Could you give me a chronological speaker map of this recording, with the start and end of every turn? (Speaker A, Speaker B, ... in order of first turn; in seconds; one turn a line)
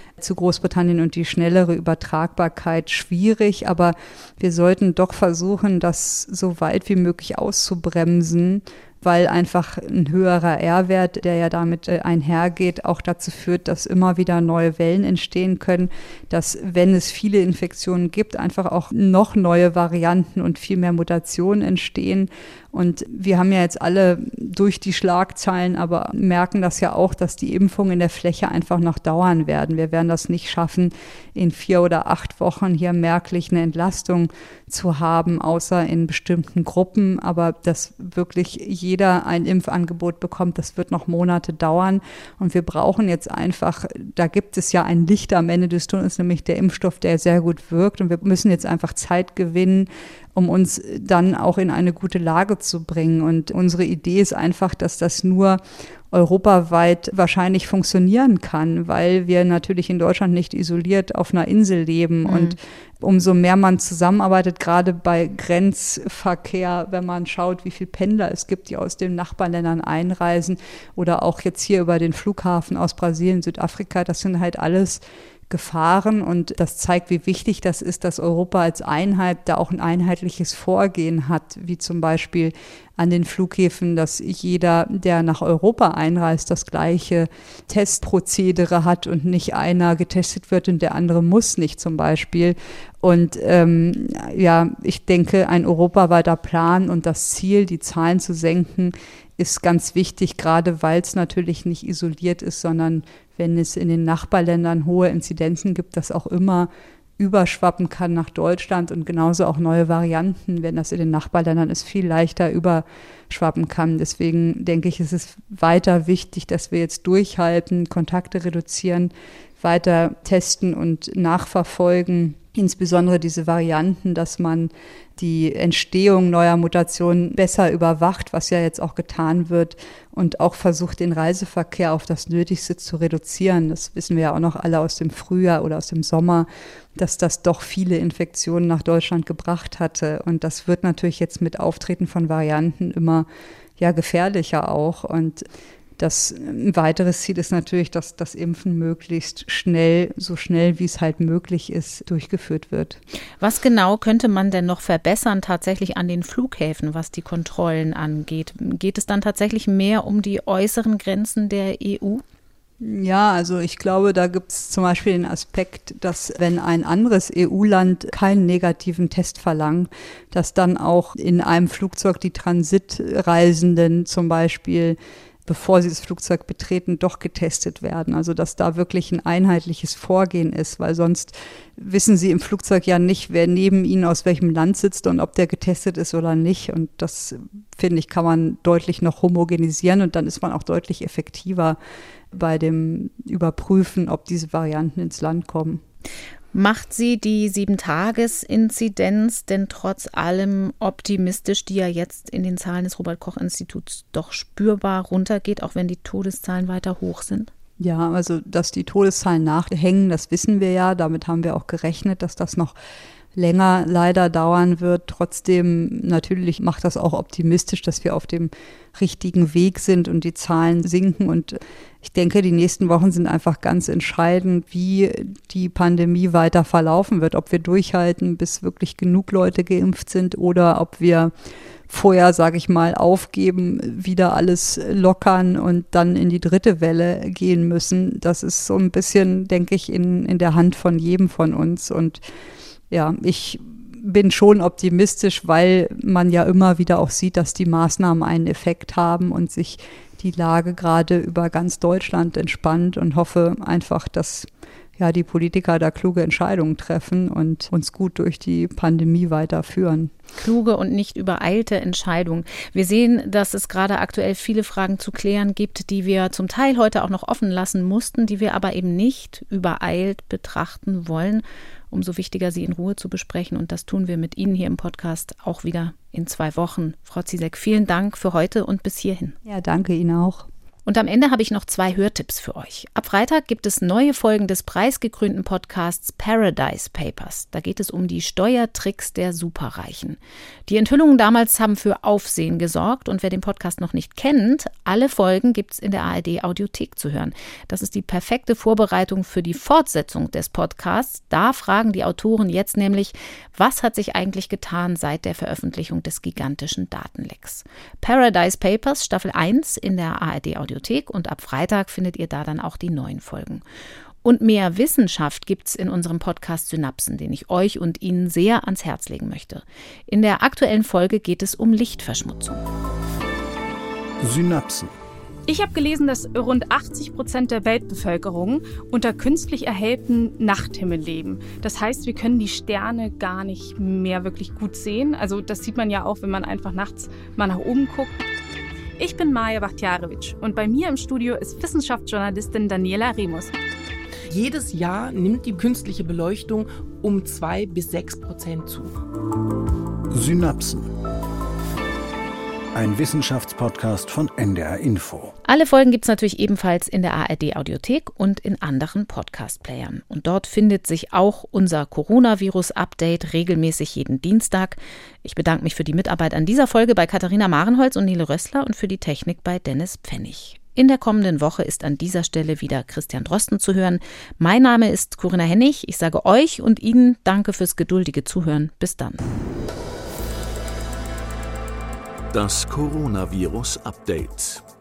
Speaker A: 0.2-143.3
Speaker B: 62.3-62.6
Speaker A: 143.8-145.5
Speaker A: 146.0-153.0
Speaker B: 153.4-162.2
Speaker A: 162.8-191.8
Speaker A: 192.3-195.8
Speaker B: 196.5-207.5
Speaker A: 207.8-212.8
Speaker A: 213.3-231.3
Speaker A: 231.9-242.2
Speaker A: 242.9-260.1
Speaker B: 260.4-279.4
Speaker A: 279.5-280.5
Speaker B: 280.9-313.6
Speaker B: 314.2-322.6
Speaker C: 324.2-324.9
Speaker D: 325.5-338.2
Speaker D: 339.0-343.5
Speaker E: 344.3-348.9
Speaker C: 350.1-350.9
Speaker C: 352.7-355.4
Speaker B: 355.5-379.3
Speaker F: 382.3-384.6